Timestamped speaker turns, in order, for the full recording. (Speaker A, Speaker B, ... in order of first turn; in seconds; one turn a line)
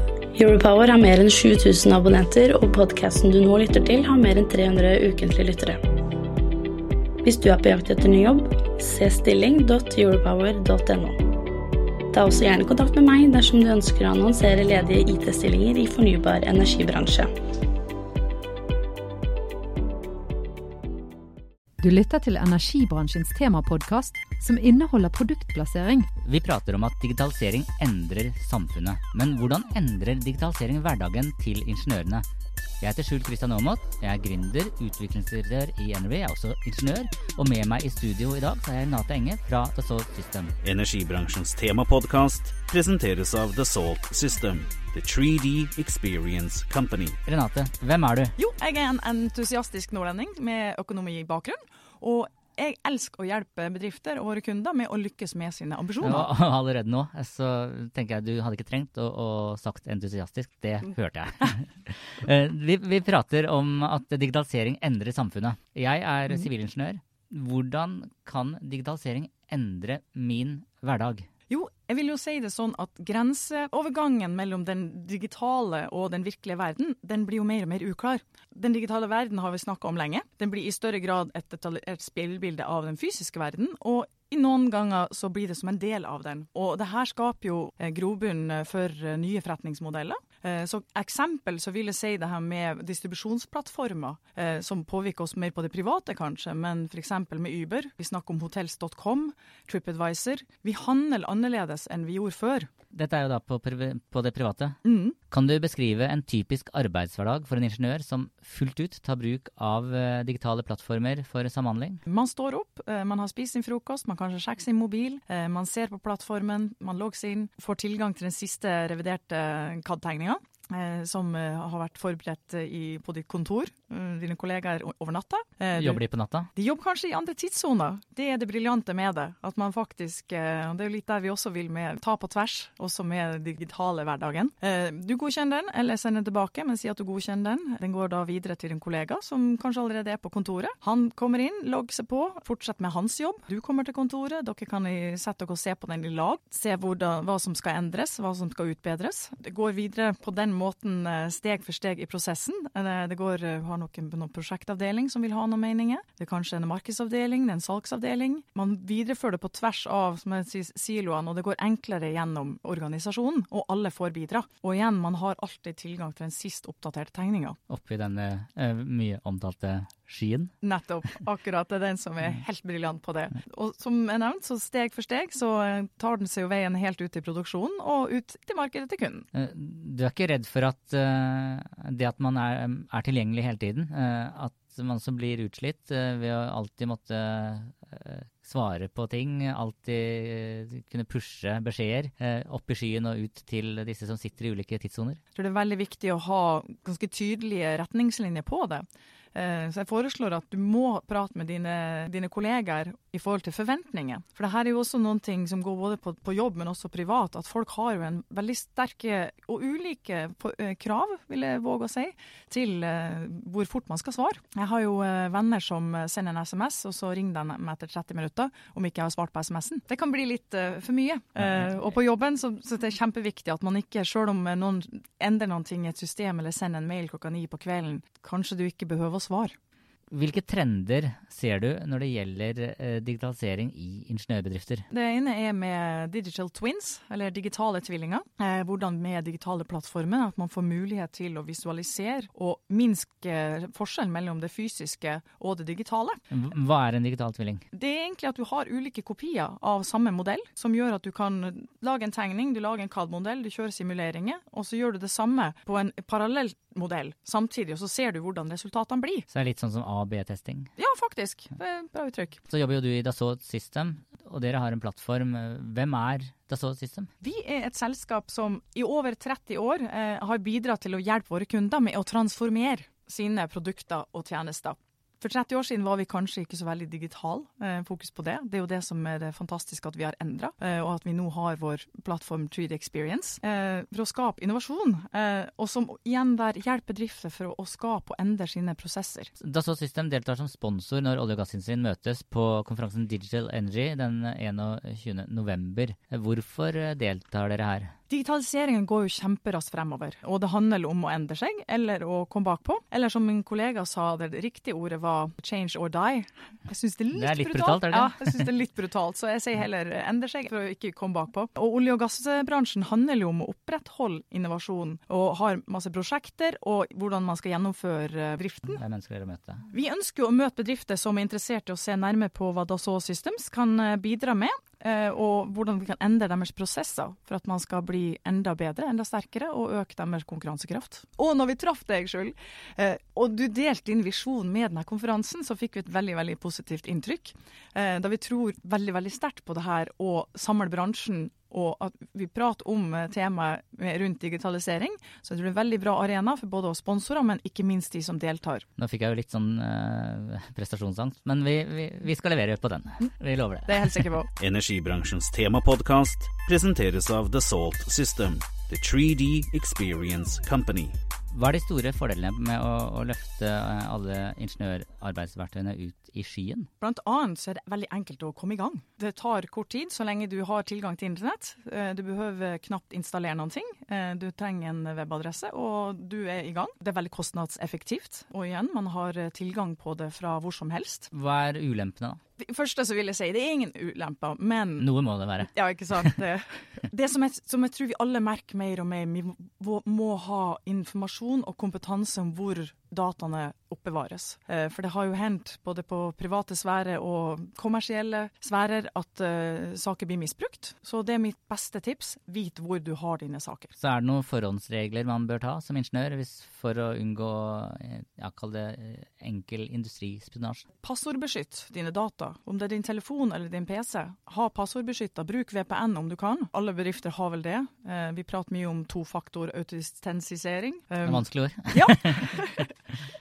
Speaker A: 0.4-5.8
Speaker A: 7.2-11.2
Speaker A: 12.1-17.3
Speaker B: 21.8-26.1
Speaker C: 26.2-32.2
Speaker C: 32.8-40.5
Speaker D: 40.6-47.2
Speaker C: 47.3-48.3
Speaker E: 48.4-56.3
Speaker C: 56.0-71.3
Speaker E: 71.5-102.7
Speaker C: 102.9-104.8
Speaker E: 104.8-105.2
Speaker C: 105.3-112.0
Speaker E: 112.1-126.0
Speaker C: 125.8-126.5
Speaker E: 126.5-167.6
Speaker C: 167.7-170.5
Speaker E: 170.6-179.3
Speaker C: 179.3-195.2
Speaker E: 195.3-229.6
Speaker C: 230.1-234.9
Speaker E: 234.9-246.2
Speaker C: 246.3-247.7
Speaker E: 247.7-259.3
Speaker C: 259.3-260.7
Speaker E: 260.8-262.4
Speaker C: 262.5-267.1
Speaker E: 267.2-289.3
Speaker C: 289.4-297.9
Speaker E: 298.1-318.8
Speaker C: 307.1-308.5
Speaker C: 318.8-319.7
Speaker E: 319.7-348.7
Speaker C: 348.8-354.1
Speaker E: 353.7-354.3
Speaker D: 354.4-361.0
Speaker C: 361.3-366.7
Speaker E: 366.8-381.1
Speaker C: 381.1-382.2
Speaker E: 382.4-384.9
Speaker C: 384.8-386.1
Speaker E: 385.5-403.7
Speaker C: 403.8-410.6
Speaker E: 410.8-422.7
Speaker C: 421.1-422.6